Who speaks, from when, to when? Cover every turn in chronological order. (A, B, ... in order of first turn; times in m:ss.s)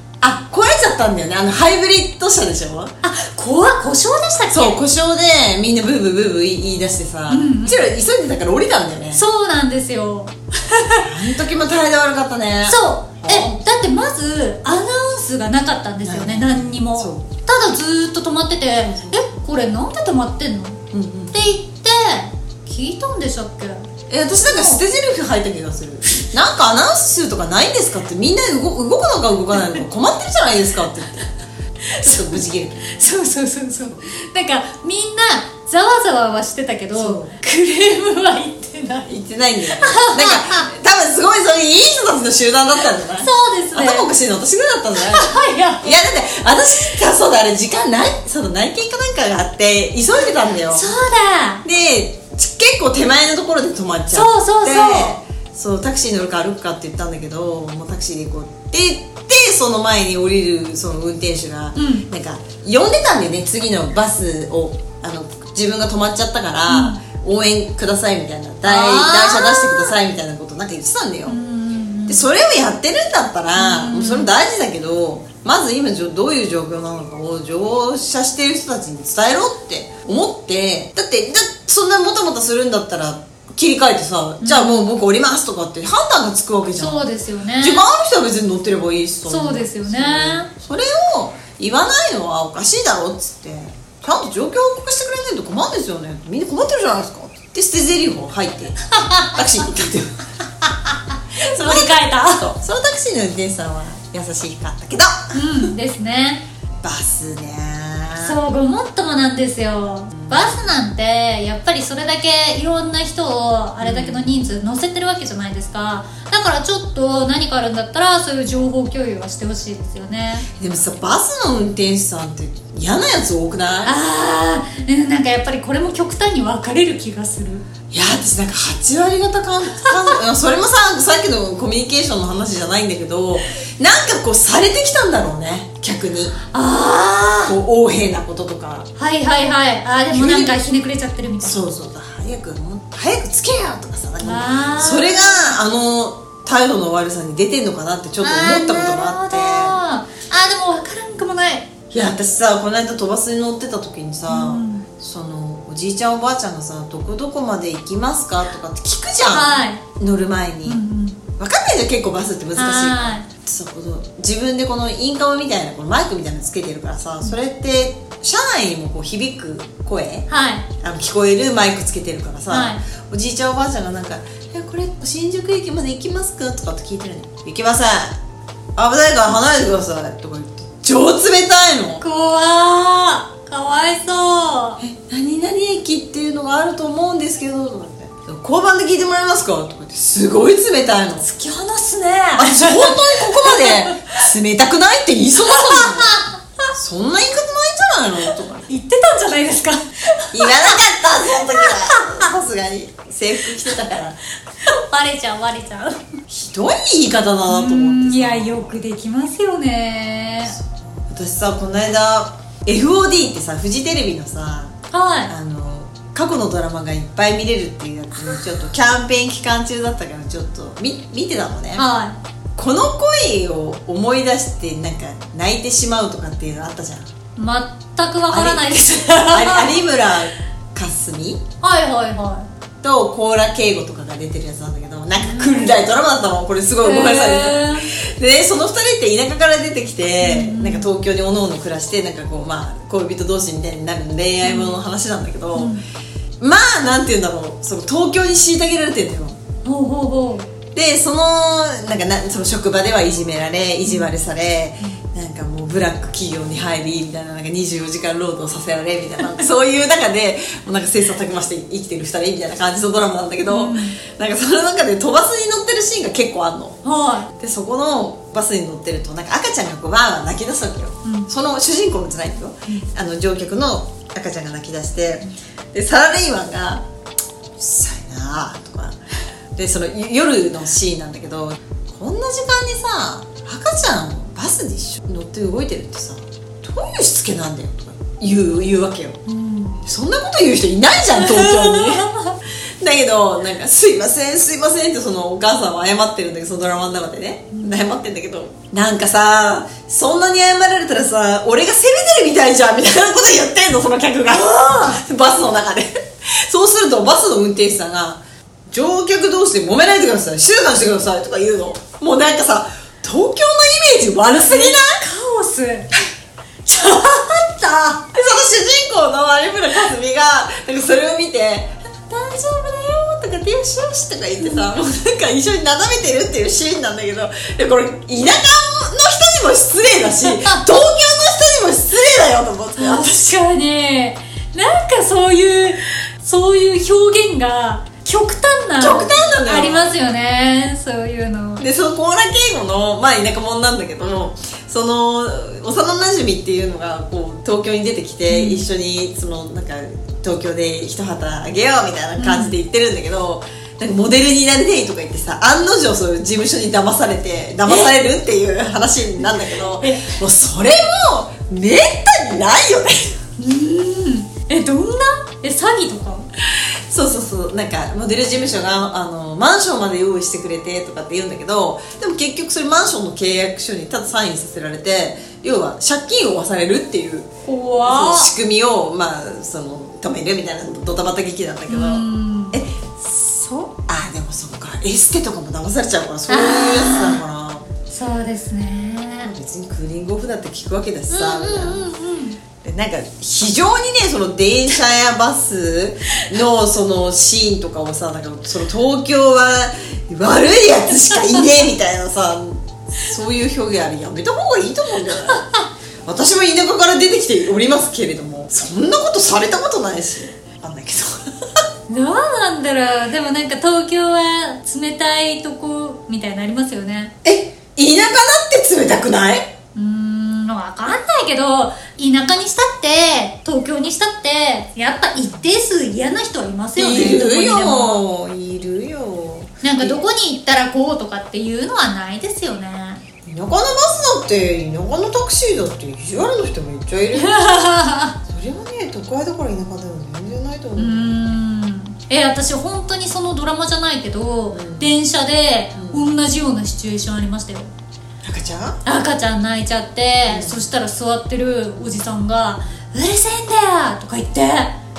0:00.2-0:02.9 A
0:03.0-0:04.8 B
0:04.5-0:09.2 A
0:07.3-0:07.8 B
0:09.1-0:11.1 B
0:10.9-0:13.6 A
0:12.6-0:23.9 B
0:16.0-0:17.2 A
0:18.8-0:19.2 A
0:20.9-0:21.5 A
0:24.1-0:31.3 A
0:24.4-0:24.8 B
0:31.9-0:39.1 B
0:32.0-0:32.8 A
0:36.9-0:37.4 A
0:39.1-0:50.9 A
0:39.7-0:40.7 B
0:43.2-0:44.1 B
0:45.0-0:46.0 B
0:50.7-0:51.6 B
0:51.6-1:11.4 A
0:54.1-0:55.2 B
1:01.8-1:02.1 B
1:06.7-1:07.0 B
1:08.6-1:10.0 B
1:11.3-1:12.3 B
1:12.1-1:27.0 A
1:13.6-1:14.3 B
1:24.4-1:24.9 B
1:26.8-1:27.8 B
1:27.6-1:38.8 A
1:29.3-1:30.5 B
1:38.9-1:39.4 B
1:39.3-1:40.2 A
1:41.4-1:42.5 B
1:41.4-1:45.7 A
1:45.3-1:46.4 B
1:46.8-1:48.4 A
1:48.2-2:00.5 B
1:50.2-1:50.7 A
1:53.8-1:54.4 A
2:00.6-2:03.9 A
2:03.8-2:07.6 B
2:07.9-2:16.4 A
2:16.5-2:17.6 B
2:17.5-2:18.9 A
2:19.0-2:21.6 B
2:20.1-2:20.6 A
2:21.4-2:29.8 A
2:24.2-2:25.5 B
2:28.2-2:31.7 B
2:31.9-2:40.8 A
2:34.3-2:34.9 B
2:39.3-2:39.8 B
2:40.6-2:41.2 B
2:41.4-2:50.3 A
2:42.6-2:43.3 B
2:50.3-2:50.7 B
2:50.8-2:58.2 A
2:52.5-2:52.8 B
2:58.8-3:02.0 A
3:02.0-3:04.8 B
3:04.8-3:11.3 A
3:11.2-3:14.2 B
3:12.4-3:18.7 A
3:15.4-3:16.7 B
3:18.2-3:20.8 B
3:20.3-3:24.2 A
3:21.3-3:22.3 B
3:24.6-3:26.0 B
3:26.3-3:28.7 A
3:27.5-3:30.6 B
3:30.5-3:34.8 A
3:34.9-3:35.3 B
3:35.3-3:41.8 A
3:41.8-3:42.2 B
3:42.6-3:47.1 A
3:47.4-3:49.8 B
3:48.3-3:51.4 A
3:51.6-3:52.5 B
3:52.8-4:05.7 A
3:55.2-3:55.7 B
3:56.8-3:57.9 B
4:00.2-4:00.9 B
4:04.4-4:04.8 B
4:05.6-4:05.8 B
4:06.4-4:09.4 A
4:09.6-4:10.5 B
4:10.7-4:26.8 A
4:23.5-4:24.0 B
4:26.8-4:27.3 B
4:27.3-4:36.9 A
4:31.0-4:31.3 B
4:37.6-4:39.0 A
4:39.6-4:49.2 A
4:49.3-4:49.8 B
4:49.8-4:52.1 A
4:51.1-4:52.4 B
4:52.8-5:15.0 A
4:57.5-4:57.9 B
5:04.3-5:05.0 B
5:14.4-5:15.9 B
5:16.7-5:18.3 B
5:18.1-5:33.4 A
5:24.4-5:24.7 B
5:30.2-5:30.6 B
5:32.8-5:41.6 B
5:38.8-5:39.9 A
5:41.6-6:03.2 A
5:48.3-5:48.6 B
5:52.2-5:52.6 B
5:57.7-5:58.0 B
5:59.2-6:00.2 B
6:03.4-6:06.3 B
6:06.4-6:17.3 A
6:17.4-6:18.3 B
6:17.8-6:27.7 A
6:21.7-6:22.6 B
6:26.3-6:27.2 B
6:27.9-6:29.3 B
6:29.2-6:31.9 A
6:31.1-6:32.4 B
6:32.6-6:45.4 A
6:45.3-6:45.6 B
6:46.0-6:51.3 A
6:51.9-6:57.1 B
6:57.2-6:59.5 A
6:59.8-7:08.0 B
7:06.8-7:10.0 A
7:09.6-7:13.0 B
7:13.2-7:17.7 A
7:17.1-7:18.2 B
7:18.2-7:21.4 A
7:20.8-7:27.7 B
7:24.5-7:25.0 A
7:25.8-7:26.1 A
7:28.2-7:28.8 A
7:28.8-7:34.8 B
7:30.3-7:30.6 A